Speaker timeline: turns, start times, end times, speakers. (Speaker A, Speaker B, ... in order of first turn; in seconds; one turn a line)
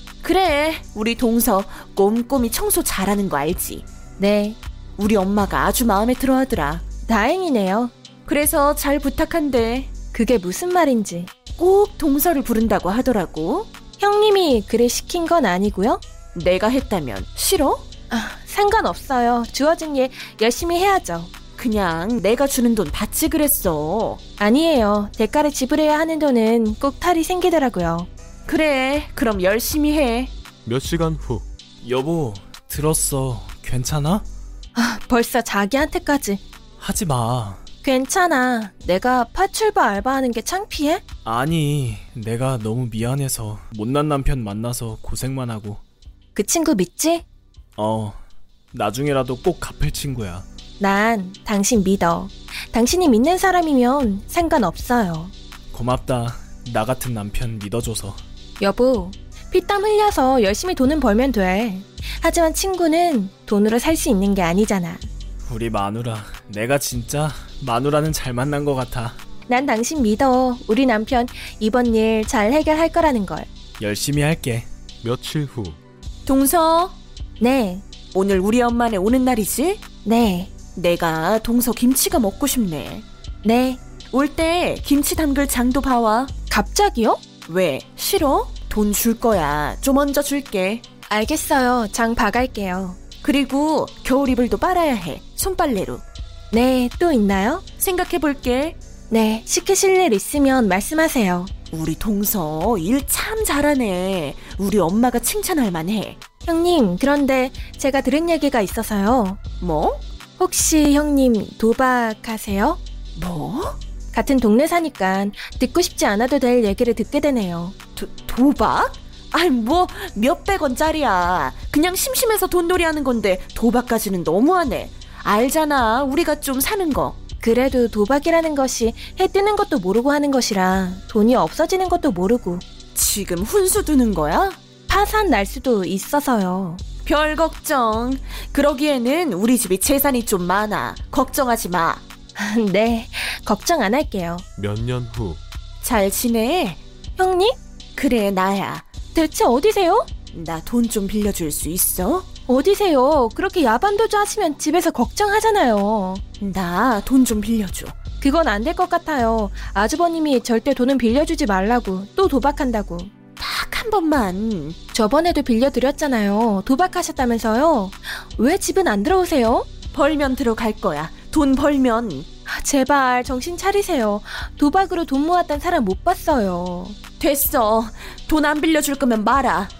Speaker A: 0.2-3.9
Speaker B: 4.2-4.6
Speaker A: 5.0-6.8
Speaker B: 7.1-7.9
Speaker A: 8.3-9.9
Speaker B: 10.1-11.3
Speaker A: 11.6-13.7
Speaker B: 14.0-16.0
Speaker A: 16.3-17.9
Speaker B: 18.1-21.3
Speaker A: 21.6-24.2
Speaker B: 24.4-28.1
Speaker A: 28.5-30.3
Speaker C: 30.6-31.5
Speaker D: 31.8-34.2
Speaker B: 34.7-36.4
Speaker D: 36.8-37.6
Speaker B: 37.8-41.0
Speaker D: 41.2-45.8
Speaker B: 46.3-47.2
Speaker D: 47.8-48.2
Speaker D: 48.7-50.5
Speaker B: 50.8-55.3
Speaker D: 55.7-58.2
Speaker B: 58.6-65.0
Speaker D: 65.4-69.2
Speaker B: 69.5-73.5
Speaker D: 73.8-74.7
Speaker C: 75.0-75.8
Speaker A: 76.2-77.0
Speaker B: 77.4-77.8
Speaker A: 78.1-79.8
Speaker B: 80.0-80.5
Speaker A: 80.7-83.0
Speaker B: 83.4-83.8
Speaker A: 84.1-86.3
Speaker B: 86.5-87.2
Speaker A: 87.5-90.8
Speaker B: 91.1-93.0
Speaker A: 93.2-96.0
Speaker B: 96.5-97.6
Speaker A: 97.8-98.8
Speaker B: 99.1-101.5
Speaker A: 101.7-106.2
Speaker B: 106.5-109.4
Speaker A: 109.6-110.0
Speaker B: 110.4-112.8
Speaker A: 113.2-113.8
Speaker B: 114.1-117.7
Speaker A: 118.0-127.2
Speaker B: 127.4-132.6
Speaker A: 132.9-134.6
Speaker B: 134.9-136.8
Speaker A: 137.0-142.0
Speaker B: 142.3-144.4
Speaker C: 144.6-145.4
Speaker A: 145.8-146.8
Speaker B: 147.2-147.6
Speaker A: 147.9-148.8
Speaker B: 149.1-150.1
Speaker A: 150.3-152.3
Speaker B: 152.5-156.2
Speaker A: 156.4-157.9
Speaker B: 158.2-163.1
Speaker A: 163.4-164.8
Speaker B: 164.9-169.7
Speaker A: 169.9-172.3
Speaker B: 172.5-177.0
Speaker A: 177.2-179.7